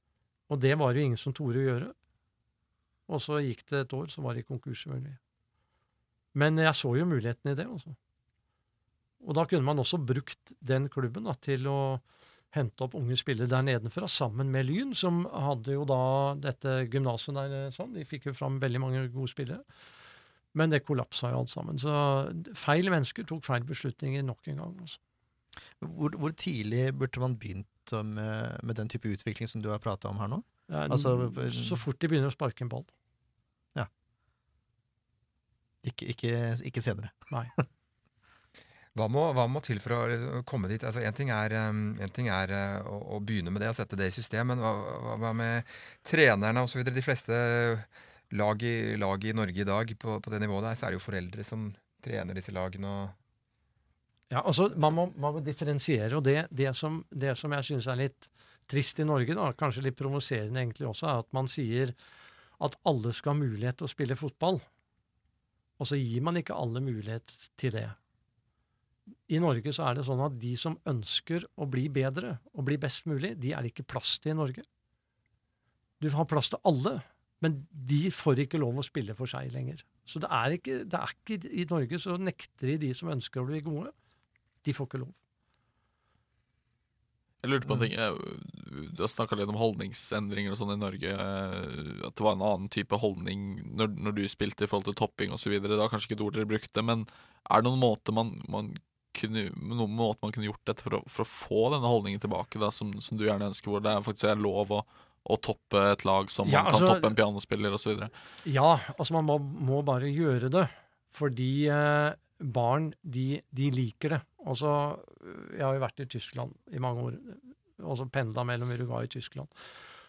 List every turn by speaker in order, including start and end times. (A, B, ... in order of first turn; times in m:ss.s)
0:00.5-0:01.9 A
0:03.1-0:05.2 A
0:06.3-0:08.0 A
0:09.2-0:19.6 A
0:20.5-0:25.0 A
0:25.8-0:31.8 B
0:30.7-0:32.9 A
0:35.8-0:37.6 B
0:38.9-0:53.1 C
0:54.3-1:01.9 A
1:02.6-1:04.6 A
1:05.8-1:08.0 A
1:09.3-1:14.6 A
1:16.0-1:23.9 A
1:24.6-1:25.2 A
1:27.4-1:48.1 D
1:46.4-1:47.1 A
1:48.4-1:59.5 A